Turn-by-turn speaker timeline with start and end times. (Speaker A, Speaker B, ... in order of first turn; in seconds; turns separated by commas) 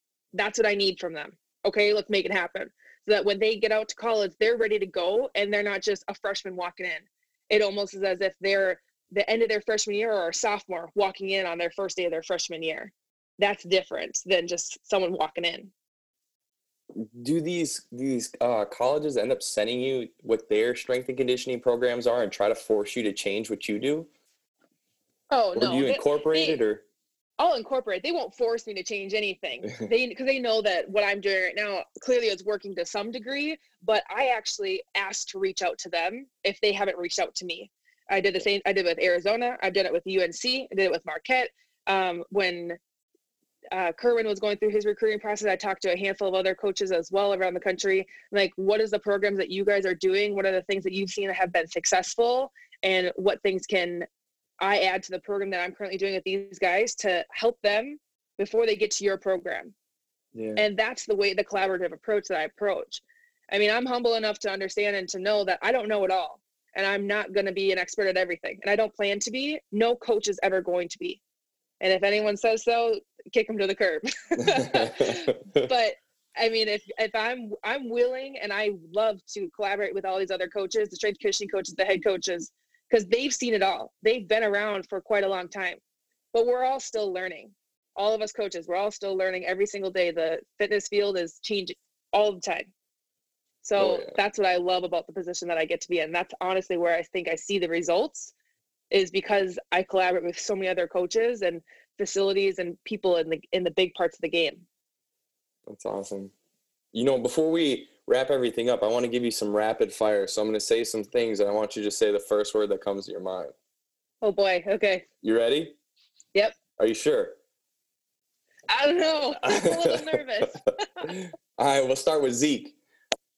Speaker A: 0.3-15.7, Speaker B: 16.9-24.1, Speaker A: 25.3-26.6, Speaker B: 25.6-26.8, Speaker A: 27.4-42.8, Speaker A: 43.7-54.1, Speaker A: 54.6-59.7, Speaker B: 60.3-60.6, Speaker A: 60.6-71.2, Speaker A: 71.8-85.8, Speaker A: 86.3-92.7, Speaker A: 93.6-98.3, Speaker B: 93.8-94.2, Speaker A: 98.9-104.6, Speaker B: 105.7-106.3, Speaker B: 106.9-113.5, Speaker A: 114.2-115.0, Speaker B: 115.2-115.7, Speaker B: 116.8-117.3, Speaker A: 118.7-121.1, Speaker B: 119.4-122.8